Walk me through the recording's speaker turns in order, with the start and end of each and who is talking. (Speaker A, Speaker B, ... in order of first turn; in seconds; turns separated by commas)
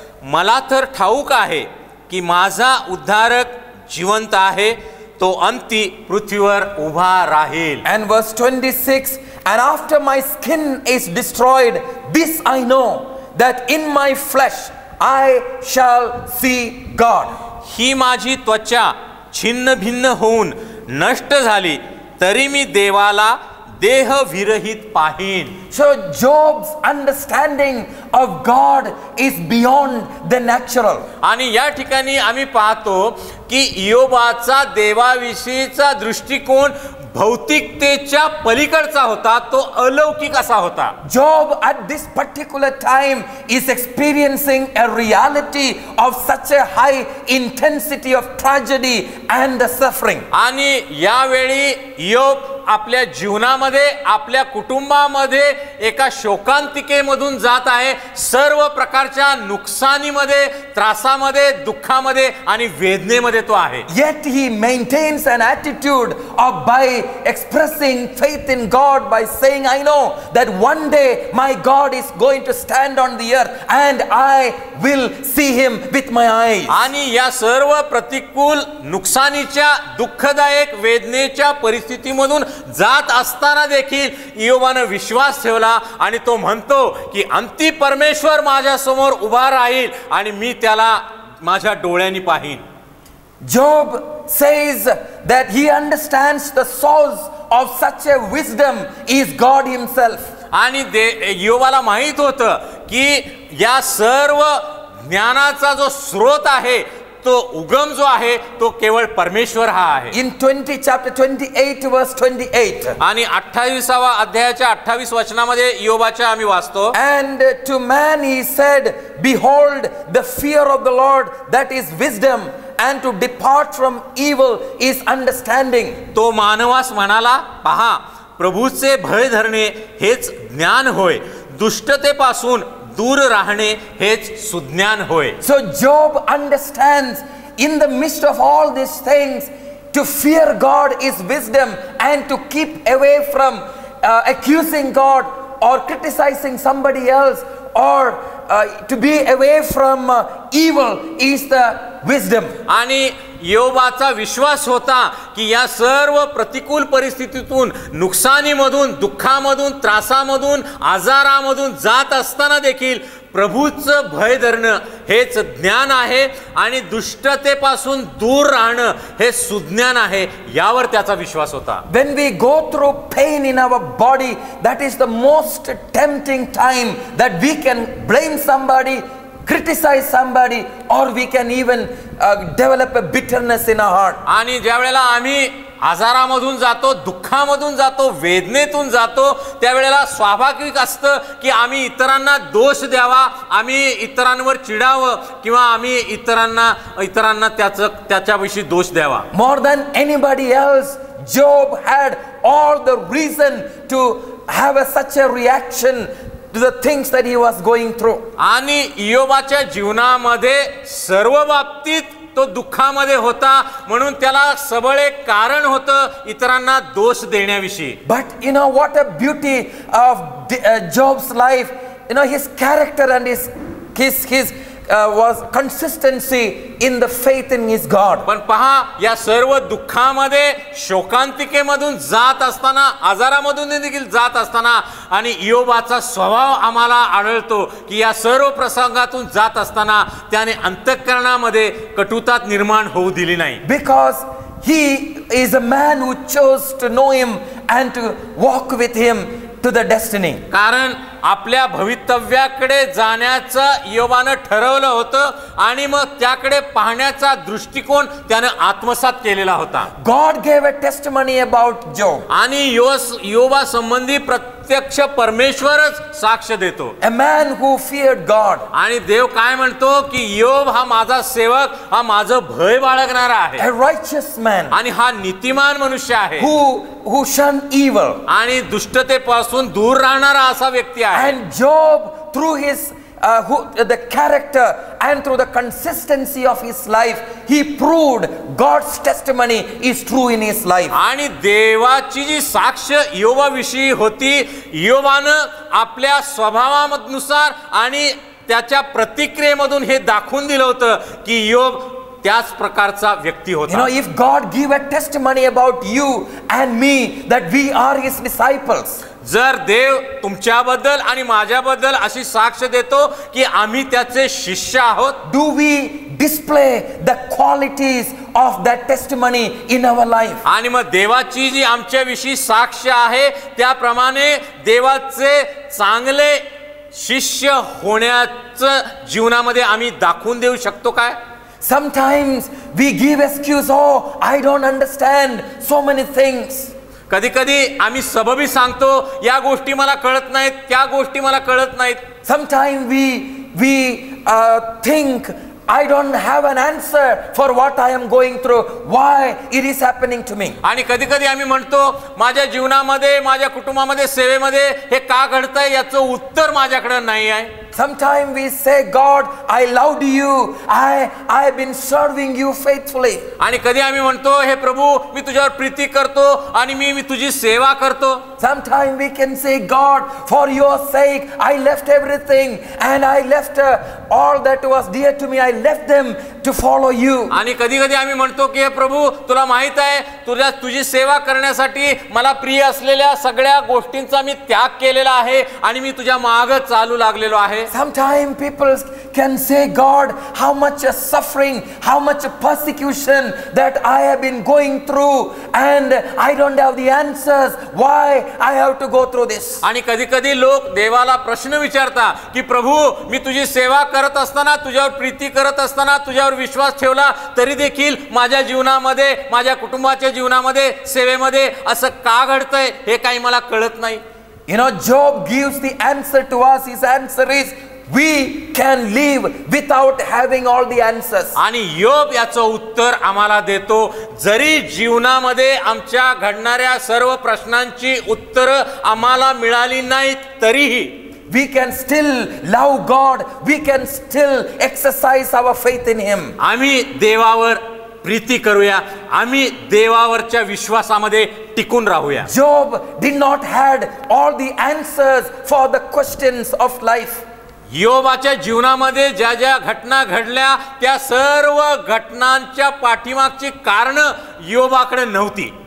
Speaker A: 0.2-7.8, Speaker B: 7.8-17.4, Speaker A: 17.6-25.6, Speaker B: 25.7-31.1, Speaker A: 31.2-40.9, Speaker B: 41.0-50.3, Speaker A: 50.3-63.9, Speaker B: 63.9-76.9, Speaker A: 76.7-92.6, Speaker B: 93.4-100.3, Speaker A: 100.5-110.1, Speaker B: 110.1-113.0, Speaker A: 113.0-117.0, Speaker B: 116.9-126.0, Speaker A: 126.1-135.4, Speaker B: 135.4-152.6, Speaker A: 152.7-171.8, Speaker B: 171.9-184.2, Speaker A: 184.2-199.3, Speaker B: 199.3-208.3, Speaker A: 208.4-218.0, Speaker B: 218.0-228.3, Speaker A: 228.2-243.6, Speaker B: 243.6-250.4, Speaker A: 250.5-259.9, Speaker B: 260.0-262.3, Speaker A: 262.3-266.9, Speaker B: 267.0-268.7, Speaker A: 268.7-273.7, Speaker B: 273.6-274.7, Speaker A: 274.7-276.5, Speaker B: 276.4-278.2, Speaker A: 278.3-281.4, Speaker B: 281.1-291.0, Speaker A: 290.9-303.9, Speaker B: 303.7-309.0, Speaker A: 309.2-315.2, Speaker B: 315.2-320.4, Speaker A: 320.4-331.2, Speaker B: 331.6-336.7, Speaker A: 337.1-342.0, Speaker B: 342.2-350.6, Speaker A: 350.6-357.5, Speaker B: 357.7-363.2, Speaker A: 363.4-368.2, Speaker B: 368.4-377.4, Speaker A: 377.3-387.7, Speaker B: 387.7-399.6, Speaker A: 399.6-414.0, Speaker B: 414.5-421.4, Speaker A: 421.4-431.1, Speaker B: 431.3-436.4, Speaker A: 436.4-442.3, Speaker B: 442.2-447.2, Speaker A: 447.7-455.5